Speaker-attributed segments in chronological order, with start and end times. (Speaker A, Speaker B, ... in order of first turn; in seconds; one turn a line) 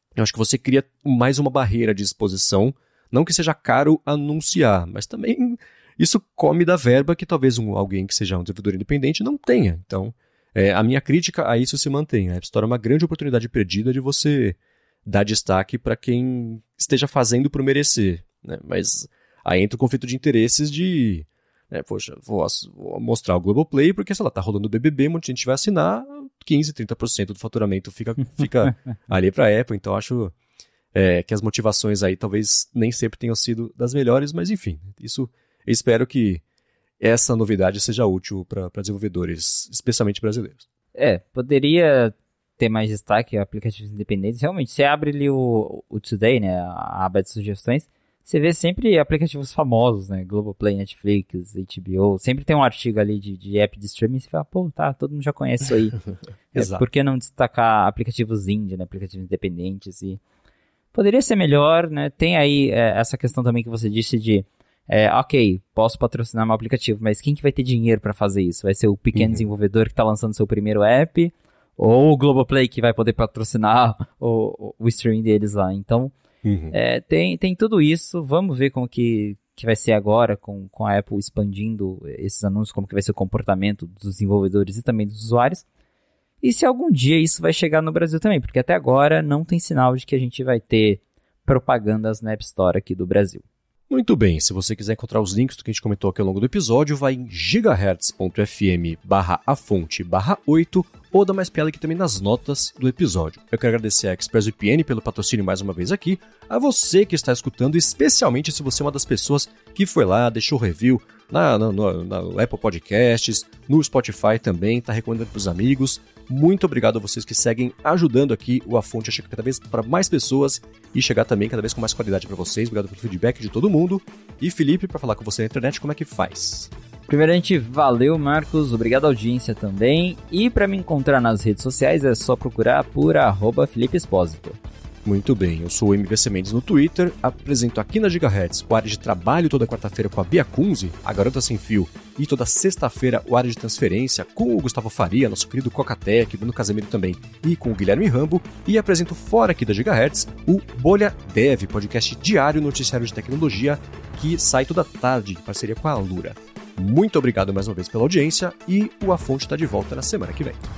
Speaker A: 0.2-30.3
Speaker A: 30.9-36.4
Speaker A: 37.0-40.6
Speaker B: 40.9-56.0
Speaker B: 56.5-60.2
Speaker A: 56.5-56.8
Speaker B: 60.9-76.1
Speaker A: 69.1-69.4
Speaker A: 76.4-76.7
Speaker B: 76.7-85.6
Speaker B: 86.4-93.4
Speaker A: 93.9-126.7
Speaker B: 127.1-134.6
Speaker A: 135.0-160.6